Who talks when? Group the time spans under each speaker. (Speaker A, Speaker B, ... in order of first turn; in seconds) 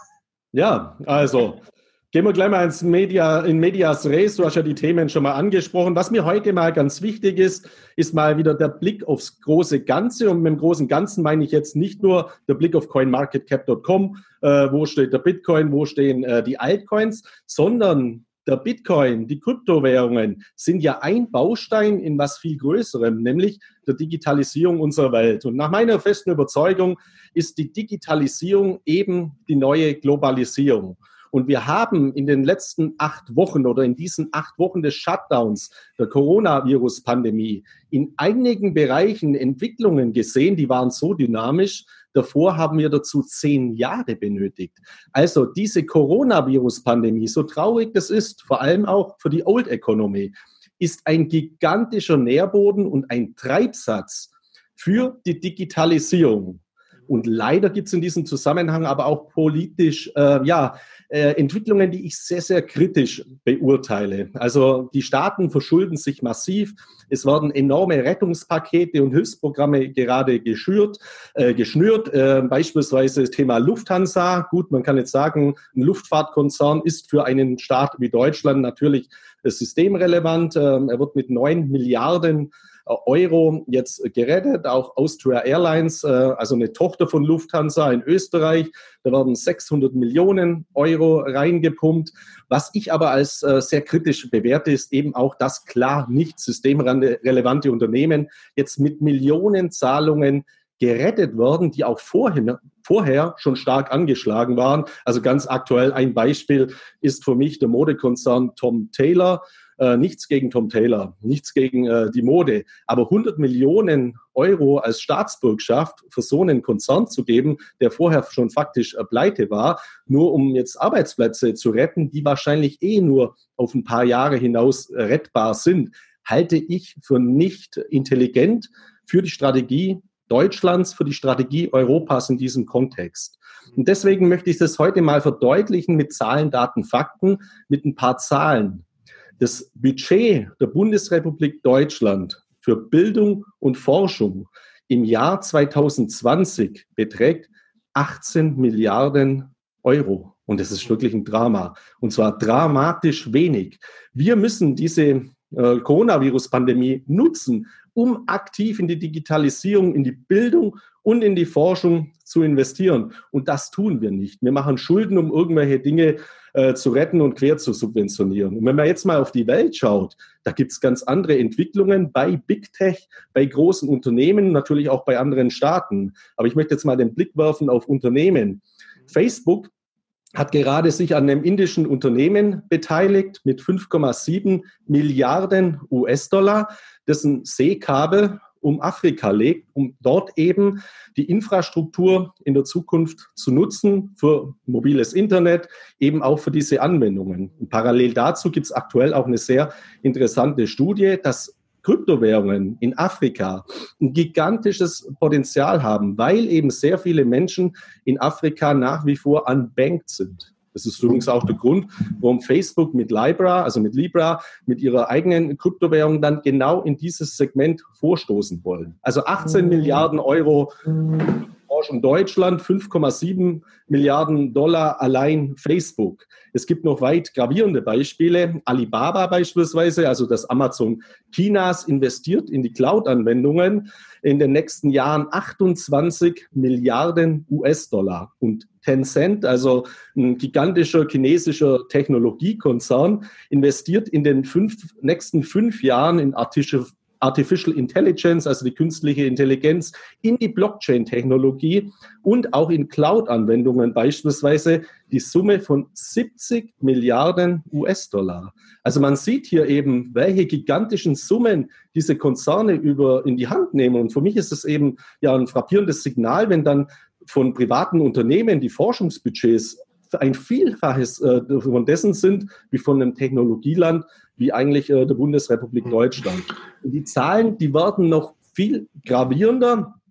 Speaker A: 0.5-138.8, 139.4-179.7, 180.3-279.9